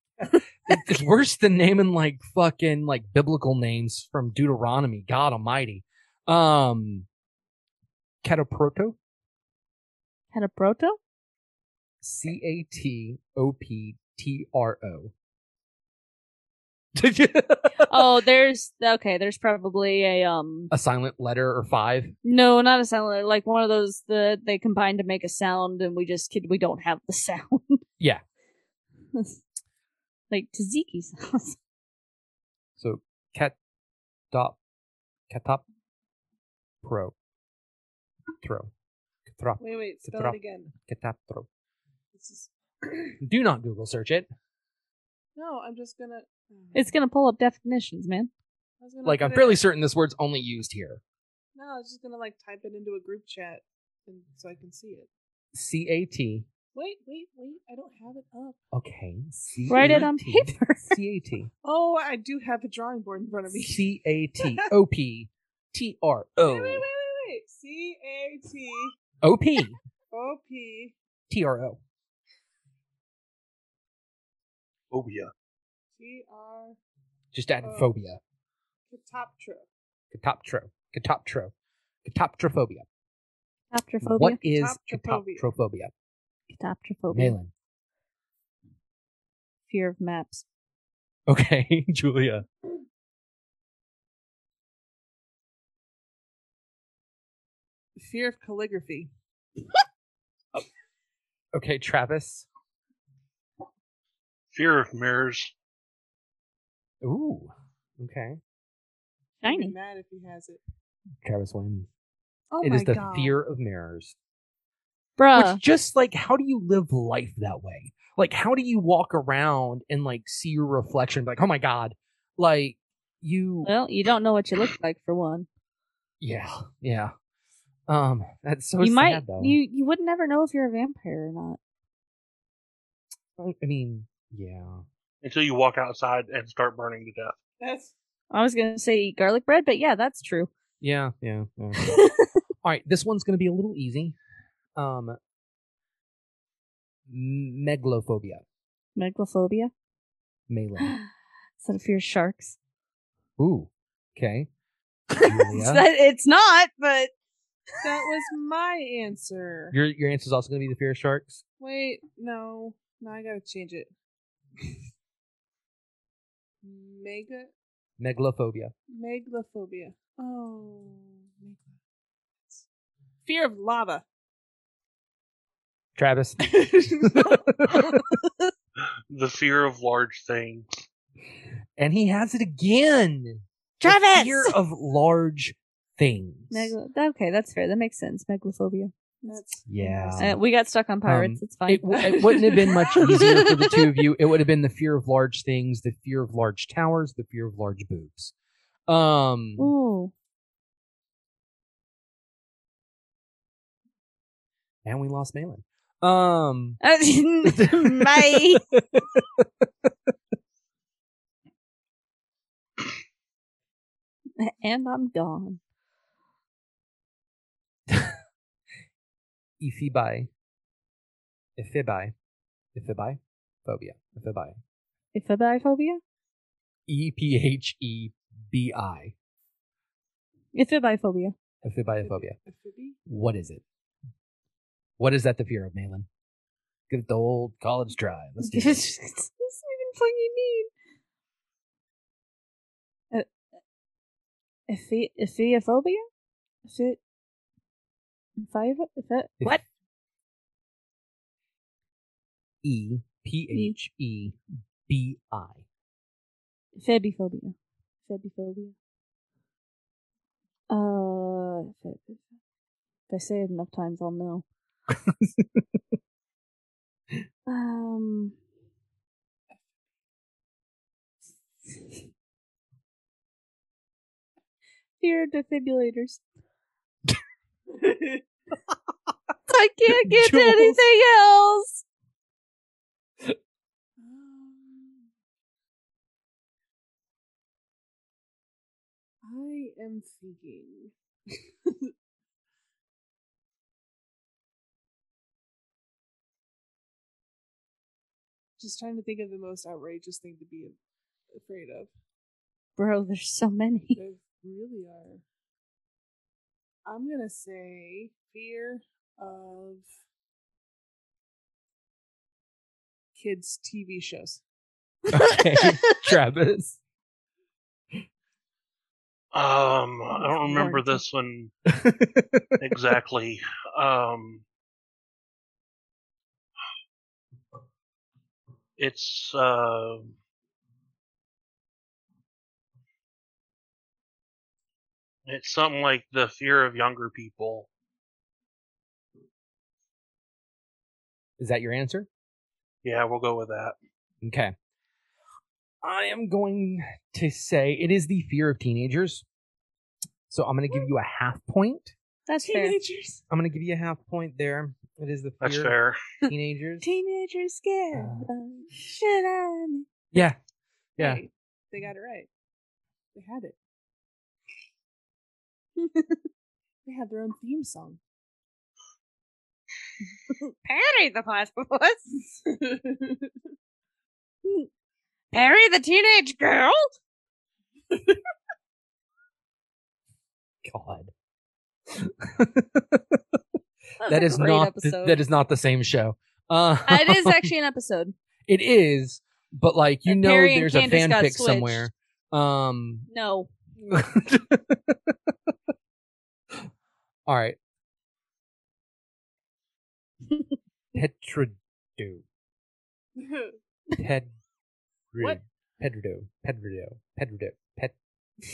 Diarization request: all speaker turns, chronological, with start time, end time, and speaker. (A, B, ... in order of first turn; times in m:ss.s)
0:00.2-0:07.1 A
0:08.2-0:09.0 A
0:10.3-0:11.0 B
0:12.0-0:15.1 A
0:16.9-0:18.1 A
0:17.8-0:20.7 B
0:20.7-0:22.1 A
0:22.2-0:27.8 B
0:30.3-0:31.6 B
0:32.8-0:33.6 A
0:34.3-0:34.6 A
0:35.3-0:35.6 A
0:36.8-0:37.1 A
0:38.4-0:38.7 A
0:39.3-0:41.5 A
0:39.6-0:40.7 C
0:42.1-0:43.2 C
0:43.2-0:44.3 A
0:45.4-0:46.9 C
0:46.7-0:48.3 B
0:48.8-0:49.6 C
0:49.0-0:51.0 A
0:51.5-0:55.1 C
0:55.5-0:56.4 A
0:56.7-0:58.6 C
0:58.7-1:01.5 A
0:59.7-1:01.0 B
1:01.6-1:03.9 C
1:03.5-1:06.9 A
1:04.4-1:04.7 C
1:06.4-1:08.9 C
1:09.2-1:09.8 A
1:10.1-1:10.9 C
1:11.3-1:11.8 A
1:14.9-1:15.3 D
1:16.0-1:16.8 C
1:17.3-1:18.2 A
1:17.6-1:17.9 C
1:18.9-1:19.7 C
1:20.1-1:21.5 A
1:22.0-1:22.9 A
1:23.7-1:24.4 B
1:24.0-1:25.9 A
1:24.4-1:25.5 C
1:26.5-1:27.4 B
1:27.1-1:27.5 A
1:29.7-1:30.4 B
1:31.3-1:32.4 A
1:38.0-1:39.1 C
1:41.5-1:42.5 A
1:44.5-1:45.5 D
1:47.0-1:48.4 A
1:49.4-1:49.7 B
1:49.4-1:50.6 C
1:51.2-1:51.9 A
1:52.5-1:53.4 C
1:52.6-1:54.2 A
1:55.2-1:55.6 B
1:55.3-2:03.7 A
2:03.6-2:05.5 B
2:06.2-2:07.1 A
2:07.9-2:09.6 A
2:08.8-2:11.6 B
2:13.4-2:14.8 A
2:15.2-2:17.4 D
2:17.6-2:17.9 C
2:18.3-2:20.5 B
2:20.8-2:21.9 A
2:21.8-2:22.3 B
2:22.6-2:24.2 A
2:24.8-2:25.2 A
2:27.1-2:28.4 A
2:29.0-2:29.7 B
2:30.5-2:31.0 A
2:30.8-2:31.1 B
2:31.6-2:32.6 B
2:33.4-2:34.5 A
2:35.1-2:37.1 B
2:35.2-2:35.8 A
2:37.8-2:39.8 C
2:39.7-2:41.4 A
2:41.6-2:43.9 C
2:46.6-2:47.5 C
2:48.0-2:48.7 A
2:48.9-2:51.8 C
2:53.2-2:54.0 C
2:56.0-2:58.1 A
2:56.4-2:58.0 C
2:59.1-3:00.8 D
3:01.8-3:06.7 A
3:03.8-3:04.5 B
3:06.5-3:09.4 B
3:09.2-3:10.4 C
3:09.7-3:10.4 A
3:10.2-3:14.0 B
3:11.0-3:18.3 A
3:12.0-3:13.0 C
3:18.9-3:19.7 A
3:19.6-3:20.1 B
3:24.8-3:26.8 A
3:26.8-3:28.6 B
3:27.4-3:29.9 A
3:34.4-3:35.6 B
3:37.9-3:38.2 A
3:39.6-3:40.3 A
3:41.6-3:42.1 A
3:42.7-3:44.6 A
3:45.1-3:46.0 B
3:46.9-3:49.1 A
3:50.5-3:51.3 B
3:51.6-3:52.4 A
3:52.0-3:53.0 C
3:53.1-3:53.6 A
3:55.0-3:56.1 A
3:56.9-3:58.8 A
3:58.4-4:00.7 B
4:04.7-4:06.0 B
4:06.6-4:07.0 B
4:08.4-4:09.6 B
4:12.6-4:15.6 A
4:16.7-4:18.7 B
4:20.7-4:22.2 B
4:23.1-4:24.4 B
4:24.9-4:25.8 A
4:27.5-4:28.4 B
4:35.0-4:36.2 B
4:37.7-4:38.2 C
4:39.5-4:41.8 B
4:39.9-4:40.8 A
4:44.0-4:45.1 C
4:49.2-4:51.9 C
4:58.6-5:00.7 C
5:01.3-5:01.9 C
5:02.8-5:04.0 B
5:04.0-5:05.2 C
5:06.8-5:09.9 C
5:13.2-5:14.4 C
5:15.1-5:16.8 A
5:15.1-5:16.0 B
5:19.3-5:21.5 D
5:20.1-5:21.0 B
5:21.7-5:22.6 A
5:22.6-5:24.4 D
5:28.8-5:30.1 D
5:35.3-5:37.7 D
5:41.4-5:42.1 A
5:42.8-5:43.7 D
5:44.2-5:44.5 A
5:45.8-5:49.2 A
5:50.3-5:51.9 A
5:52.3-5:52.8 B
5:52.4-5:53.2 C
5:53.3-5:55.7 A
5:55.4-5:56.0 D
5:56.2-5:56.8 A
5:56.8-5:59.8 B
5:57.9-5:58.3 A
6:00.1-6:00.4 A
6:01.0-6:01.2 A
6:01.0-6:02.3 C
6:03.1-6:03.6 C
6:06.8-6:08.0 C
6:10.4-6:12.3 B
6:12.4-6:13.3 C
6:15.3-6:16.9 B
6:20.6-6:21.1 A
6:21.9-6:23.4 A
6:24.0-6:25.2 B
6:24.0-6:27.5 A
6:26.8-6:28.1 B
6:28.5-6:33.1 A
6:30.0-6:31.9 B
6:33.1-6:33.5 B
6:33.8-6:35.5 A
6:37.2-6:37.6 A
6:40.9-6:42.2 A
6:43.2-6:43.6 C
6:43.9-6:44.3 A
6:45.1-6:47.9 A